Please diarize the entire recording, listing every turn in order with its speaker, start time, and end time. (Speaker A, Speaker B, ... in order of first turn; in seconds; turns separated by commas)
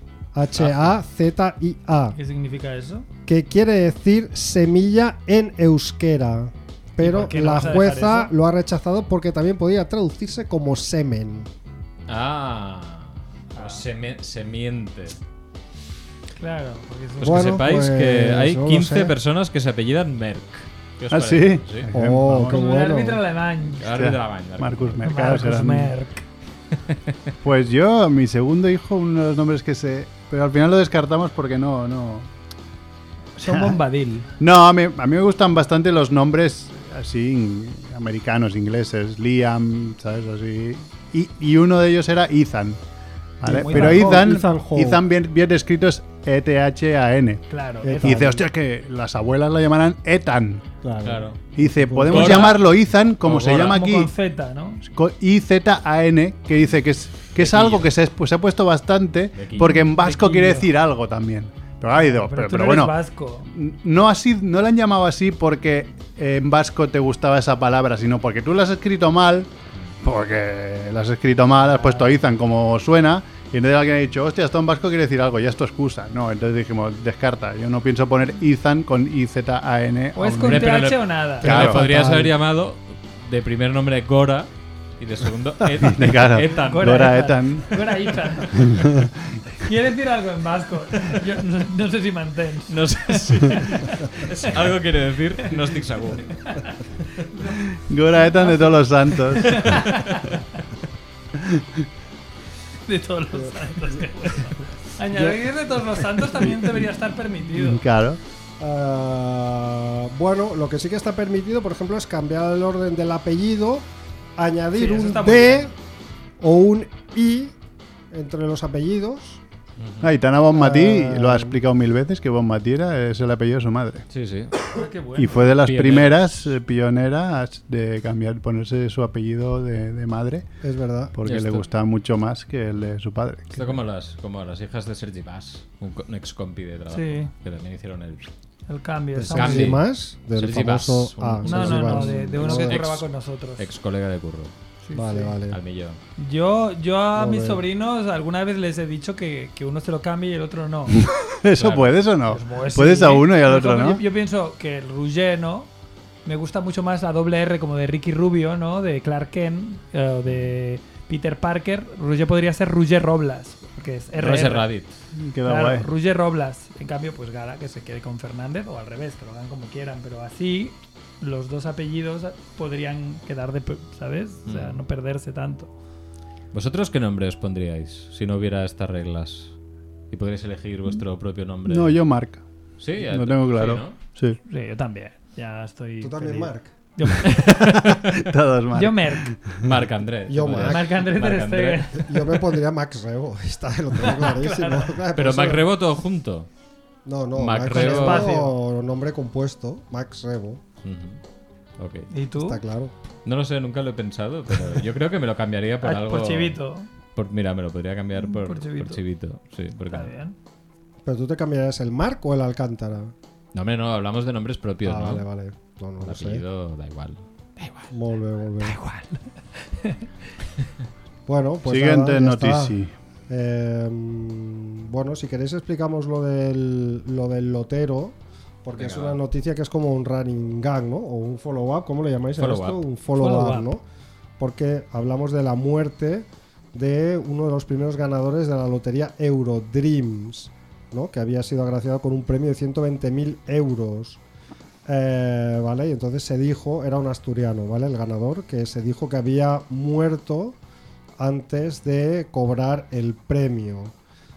Speaker A: 0.3-2.1, Speaker B: 2.1-3.0, Speaker A: 3.3-11.5, Speaker B: 7.0-8.3, Speaker C: 12.1-15.2, Speaker B: 13.5-13.8, Speaker B: 16.4-17.6, Speaker A: 17.2-19.1, Speaker C: 17.2-21.9, Speaker D: 21.1-22.6, Speaker A: 21.9-23.2, Speaker B: 22.5-23.8, Speaker C: 23.8-25.0, Speaker D: 23.9-25.9, Speaker B: 25.0-26.2, Speaker D: 27.4-32.3, Speaker B: 33.4-34.3, Speaker D: 33.5-33.7, Speaker D: 34.4-42.8, Speaker D: 43.4-47.4, Speaker B: 43.4-44.2, Speaker A: 43.5-45.0, Speaker B: 47.5-48.2, Speaker A: 47.8-48.4, Speaker D: 48.0-50.6, Speaker A: 50.8-52.4, Speaker C: 51.0-51.4, Speaker D: 51.5-54.1, Speaker C: 52.1-52.6, Speaker B: 52.2-52.5, Speaker C: 53.2-53.8, Speaker B: 53.4-54.8, Speaker D: 54.8-62.9, Speaker C: 57.4-57.9, Speaker C: 59.3-59.8, Speaker B: 59.6-60.7, Speaker B: 61.9-63.5, Speaker D: 63.5-69.5, Speaker D: 70.0-80.9, Speaker B: 71.6-72.2, Speaker B: 80.1-81.7, Speaker C: 80.4-87.1, Speaker D: 81.4-81.9, Speaker A: 81.4-82.3, Speaker D: 85.8-89.4, Speaker B: 86.6-88.9, Speaker B: 89.6-94.5, Speaker C: 92.7-96.3, Speaker B: 97.3-97.6, Speaker D: 97.9-99.9, Speaker B: 98.2-100.4, Speaker B: 102.9-107.8, Speaker D: 107.5-108.2, Speaker A: 108.6-115.7, Speaker B: 114.8-115.7, Speaker A: 116.4-117.5, Speaker A: 118.1-119.4, Speaker C: 119.8-120.1, Speaker D: 120.0-124.1, Speaker A: 120.5-121.6, Speaker C: 124.1-124.5, Speaker B: 124.7-125.5, Speaker D: 125.2-130.5, Speaker C: 125.6-126.5, Speaker A: 130.6-131.1, Speaker D: 131.1-133.8, Speaker C: 131.2-131.7, Speaker C: 133.5-138.3, Speaker B: 136.9-137.3, Speaker B: 138.7-139.8, Speaker A: 139.1-142.9, Speaker C: 139.3-143.0, Speaker B: 141.4-143.6, Speaker C: 143.6-144.5, Speaker B: 144.8-145.3, Speaker A: 144.9-145.6, Speaker C: 145.5-146.0, Speaker B: 146.2-151.0, Speaker A: 147.1-147.6, Speaker D: 150.9-154.0, Speaker C: 151.6-152.0, Speaker B: 152.3-155.7, Speaker B: 156.2-164.7, Speaker C: 160.3-160.5, Speaker C: 164.2-164.9, Speaker D: 165.1-165.8, Speaker B: 165.4-175.7, Speaker C: 174.4-174.8, Speaker C: 176.5-179.5, Speaker C: 180.1-182.0, Speaker D: 181.7-182.4, Speaker C: 182.8-183.9, Speaker D: 183.0-184.4, Speaker B: 184.5-187.4, Speaker A: 186.0-186.7, Speaker C: 187.2-188.1, Speaker D: 187.3-189.7, Speaker B: 188.7-189.3, Speaker C: 189.6-191.8, Speaker A: 190.3-191.0, Speaker B: 190.7-192.3, Speaker A: 192.0-195.7, Speaker B: 194.0-195.0, Speaker C: 195.1-196.5, Speaker A: 197.0-200.6, Speaker C: 197.3-198.3, Speaker B: 197.7-198.5, Speaker C: 200.8-201.2, Speaker C: 201.8-202.1, Speaker B: 202.1-202.6, Speaker A: 202.4-202.9, Speaker C: 203.2-206.6, Speaker B: 205.8-206.9, Speaker C: 207.1-210.1, Speaker B: 208.2-209.0, Speaker B: 209.9-210.3, Speaker A: 211.0-213.1, Speaker C: 213.5-215.2, Speaker A: 214.8-216.4, Speaker C: 216.0-217.9, Speaker A: 217.9-218.8, Speaker B: 218.6-220.0, Speaker A: 221.3-222.8, Speaker D: 221.7-222.9, Speaker A: 223.3-233.8, Speaker C: 228.7-229.2, Speaker C: 232.4-232.8, Speaker B: 233.2-233.7, Speaker A: 234.4-244.2, Speaker A: 244.8-250.6, Speaker A: 251.2-253.9